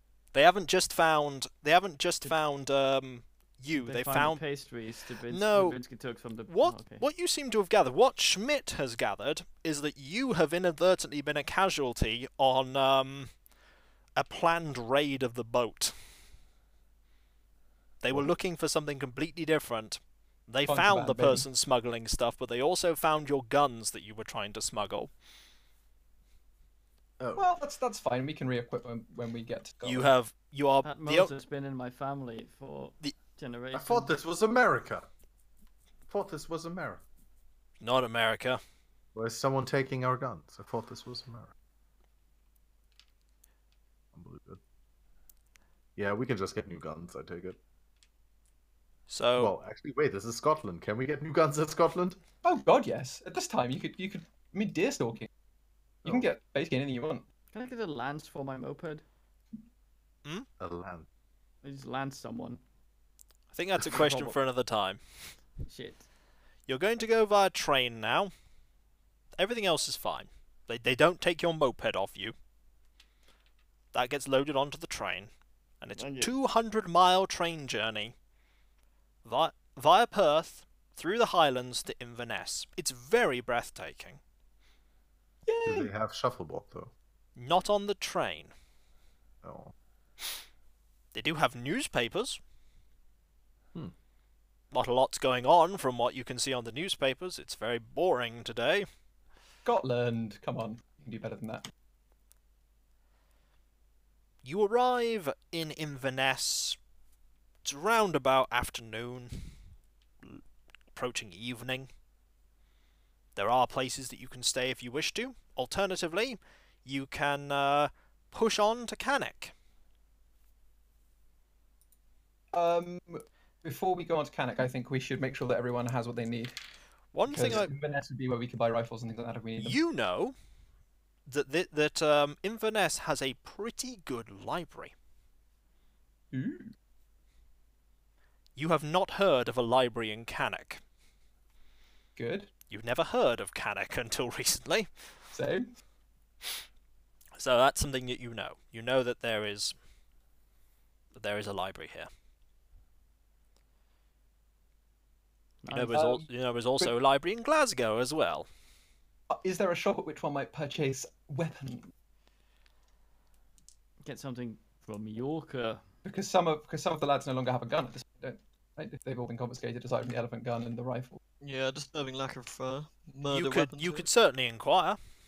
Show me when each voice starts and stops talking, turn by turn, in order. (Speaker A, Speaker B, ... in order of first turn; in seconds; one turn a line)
Speaker A: 0.3-4.4
Speaker B: 3.8-7.1
Speaker A: 5.3-5.8
Speaker A: 6.5-13.3
Speaker A: 14.2-15.9
Speaker A: 18.0-25.1
Speaker C: 20.7-21.5
Speaker D: 27.2-27.5
Speaker C: 27.4-30.1
Speaker A: 29.8-31.3
Speaker B: 30.8-34.1
Speaker D: 33.7-35.1
Speaker D: 36.1-37.0
Speaker A: 37.8-38.6
Speaker D: 39.1-41.5
Speaker D: 44.1-44.6
Speaker D: 46.0-47.6
Speaker A: 49.1-49.5
Speaker D: 49.4-52.2
Speaker C: 52.4-55.3
Speaker C: 56.0-57.2
Speaker B: 57.5-59.0
Speaker D: 60.6-61.1
Speaker B: 61.6-62.6
Speaker A: 63.5-65.0
Speaker B: 64.0-64.3
Speaker B: 65.7-66.0
Speaker A: 66.7-68.3
Speaker A: 69.4-72.3
Speaker A: 73.9-78.2
Speaker B: 76.0-76.3
Speaker A: 79.2-84.2
Speaker C: 85.5-85.9
Speaker D: 85.7-86.9
Speaker A: 87.4-88.5
Speaker D: 89.4-89.7
Speaker A: 91.1-92.4
Speaker A: 94.7-98.9
Speaker C: 99.7-101.7
Speaker A: 104.4-106.8
Speaker A: 107.6-109.5
Speaker A: 110.9-111.9
Speaker A: 113.4-119.5
Speaker C: 122.5-126.5
Speaker A: 127.1-127.7
Speaker C: 127.3-129.8
Speaker A: 129.6-130.3
Speaker A: 131.3-134.9
Speaker C: 136.3-136.7
Speaker A: 138.6-140.8
Speaker C: 142.2-142.5
Speaker A: 142.7-144.9
Speaker C: 145.3-145.7
Speaker A: 147.4-149.8
Speaker A: 151.1-152.1
Speaker B: 155.6-156.1
Speaker A: 155.7-158.5
Speaker C: 155.9-156.3
Speaker C: 159.3-161.9
Speaker B: 164.0-165.8
Speaker C: 166.0-171.2
Speaker E: 171.4-174.1
Speaker A: 173.3-175.0